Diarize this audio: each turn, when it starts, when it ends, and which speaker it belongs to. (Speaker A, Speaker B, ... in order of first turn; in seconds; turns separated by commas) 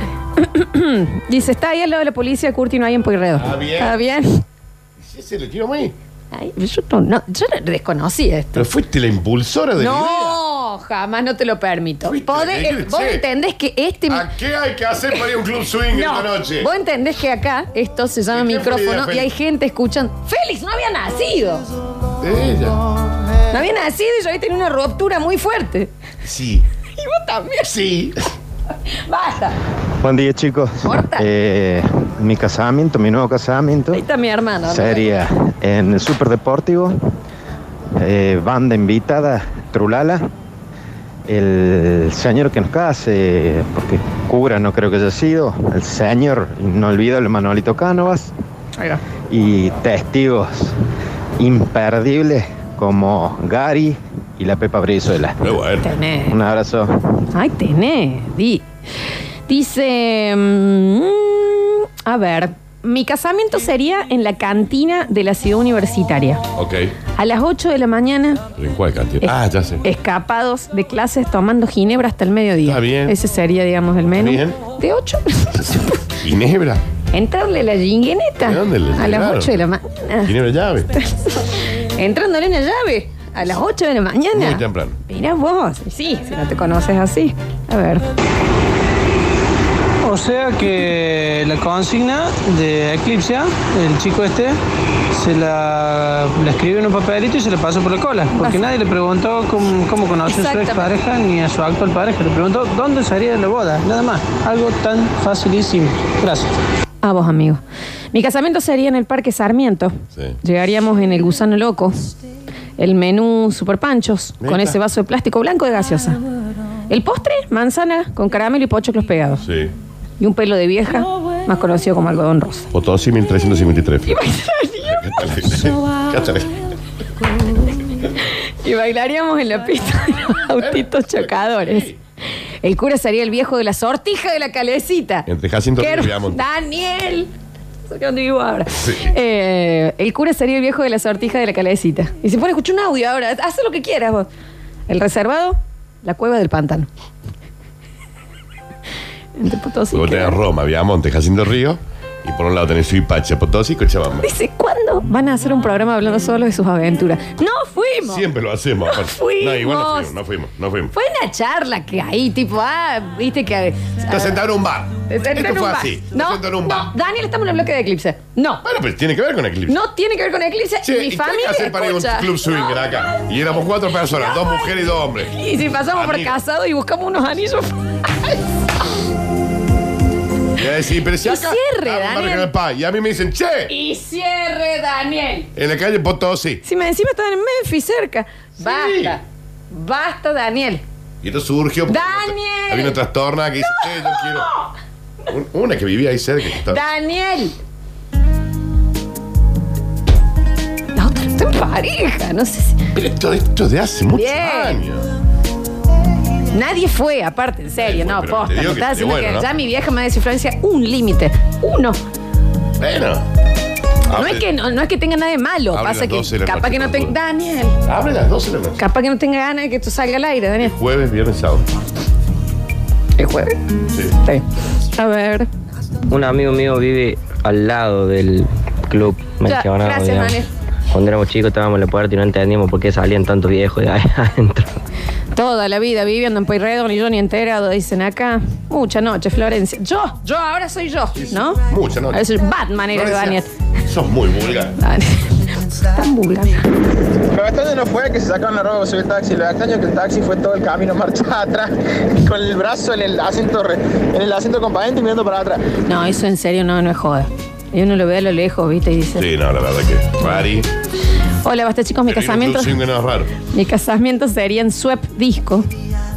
Speaker A: 0.4-4.4, Speaker B: 3.3-4.0, Speaker B: 5.0-5.9, Speaker A: 6.3-8.7, Speaker B: 8.6-10.4, Speaker A: 9.8-14.3, Speaker B: 12.1-13.2, Speaker B: 14.1-16.7, Speaker A: 15.9-21.6, Speaker B: 18.3-19.3, Speaker B: 22.2-22.8, Speaker A: 23.5-25.9, Speaker B: 26.2-26.6, Speaker A: 27.0-27.7, Speaker B: 27.7-28.1, Speaker A: 29.1-29.5, Speaker C: 30.0-34.0, Speaker A: 30.8-31.2, Speaker A: 33.9-35.1, Speaker C: 34.7-37.0, Speaker C: 38.0-40.3, Speaker C: 41.3-48.3, Speaker C: 49.3-50.7, Speaker C: 51.4-55.4, Speaker B: 55.4-55.9, Speaker A: 55.8-56.4, Speaker C: 56.3-56.9, Speaker A: 57.3-58.6, Speaker A: 59.5-66.4, Speaker B: 66.5-66.9, Speaker A: 67.2-68.4, Speaker B: 68.6-69.8, Speaker A: 69.2-76.0, Speaker B: 72.6-73.2, Speaker B: 74.1-74.6, Speaker B: 75.5-76.8, Speaker A: 77.1-80.3, Speaker B: 78.4-79.6, Speaker B: 80.2-80.9, Speaker A: 81.9-88.0, Speaker B: 84.3-85.0, Speaker D: 90.0-94.5, Speaker D: 95.1-106.5, Speaker A: 98.3-98.6, Speaker A: 100.3-100.9, Speaker A: 107.0-107.6, Speaker A: 108.1-112.1, Speaker A: 112.8-116.2, Speaker B: 114.4-114.8, Speaker A: 116.9-119.4, Speaker B: 119.4-119.7, Speaker A: 120.2-122.7, Speaker B: 122.7-124.2, Speaker A: 124.1-125.3, Speaker B: 124.9-126.6, Speaker A: 128.3-131.9, Speaker B: 130.5-132.0, Speaker A: 132.6-135.3, Speaker B: 135.3-136.4, Speaker A: 135.8-137.3, Speaker A: 137.9-144.3, Speaker B: 138.8-139.1, Speaker A: 144.9-146.9, Speaker A: 149.4-150.4, Speaker B: 149.9-154.3, Speaker A: 154.2-158.2, Speaker B: 158.0-160.9, Speaker A: 158.9-160.1, Speaker A: 160.9-164.4, Speaker B: 164.1-166.9, Speaker A: 165.1-168.6, Speaker B: 168.6-169.8, Speaker A: 169.7-172.9, Speaker B: 170.8-175.3, Speaker A: 174.1-174.7, Speaker A: 175.3-178.3, Speaker B: 175.9-176.4, Speaker B: 180.6-183.7, Speaker A: 181.2-182.5, Speaker A: 183.7-185.5, Speaker B: 185.6-186.6, Speaker A: 186.6-189.2, Speaker B: 188.6-189.2, Speaker A: 189.7-190.8, Speaker B: 191.2-194.5, Speaker A: 191.9-192.9, Speaker A: 193.7-194.7, Speaker B: 195.3-196.8, Speaker A: 196.7-197.5, Speaker A: 200.9-202.8, Speaker B: 202.9-205.1, Speaker A: 204.1-204.8, Speaker A: 206.5-212.0, Speaker B: 207.8-209.5, Speaker B: 212.8-213.2, Speaker B: 214.1-214.5, Speaker A: 214.1-217.8, Speaker B: 215.7-217.1, Speaker B: 217.8-218.8, Speaker A: 218.8-220.7, Speaker B: 220.6-221.6, Speaker A: 223.2-223.6, Speaker A: 224.9-225.5, Speaker E: 226.1-230.4, Speaker A: 229.4-230.5, Speaker E: 230.9-234.7, Speaker A: 235.3-241.6, Speaker B: 241.2-242.2, Speaker A: 242.1-243.5, Speaker B: 242.9-244.8, Speaker A: 244.8-246.6, Speaker F: 247.3-251.7, Speaker F: 252.2-255.6, Speaker A: 255.9-259.2, Speaker B: 259.2-260.7, Speaker A: 261.4-262.8, Speaker B: 262.1-263.3, Speaker A: 263.5-265.7